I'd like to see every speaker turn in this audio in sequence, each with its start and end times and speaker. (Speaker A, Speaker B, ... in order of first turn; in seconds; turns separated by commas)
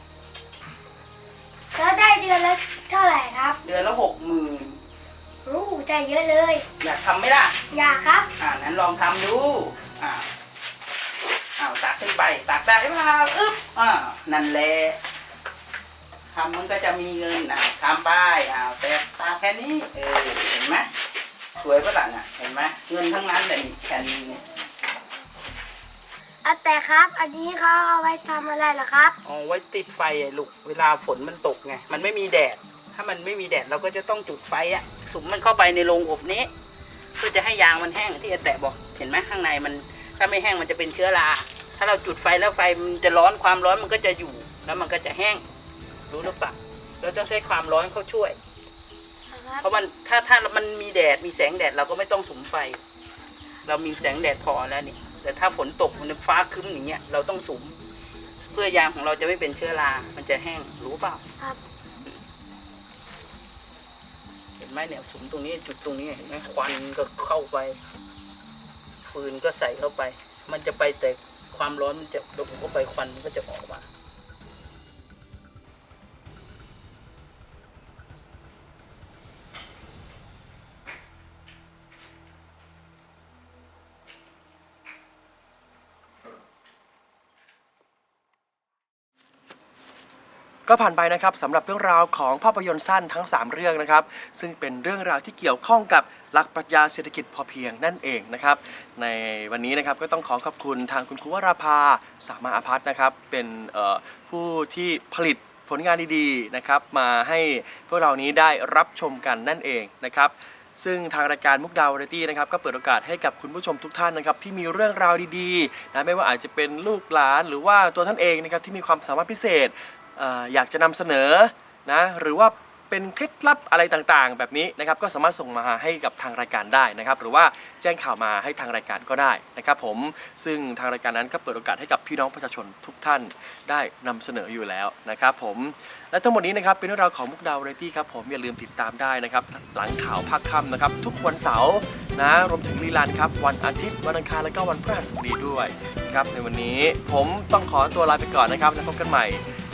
Speaker A: 1.7-3.6, Speaker B: 3.6-4.8, Speaker A: 5.5-6.7, Speaker B: 6.8-7.6, Speaker A: 7.7-8.3, Speaker B: 8.4-10.3, Speaker B: 11.6-15.0, Speaker B: 16.3-20.9, Speaker B: 21.6-24.4, Speaker A: 26.4-29.1, Speaker B: 29.2-36.5, Speaker B: 37.2-45.4, Speaker B: 46.1-48.4, Speaker A: 49.3-49.8, Speaker B: 49.6-52.8, Speaker B: 53.7-57.8, Speaker B: 58.5-61.2, Speaker B: 64.6-67.8, Speaker B: 69.1-73.9, Speaker C: 90.7-149.4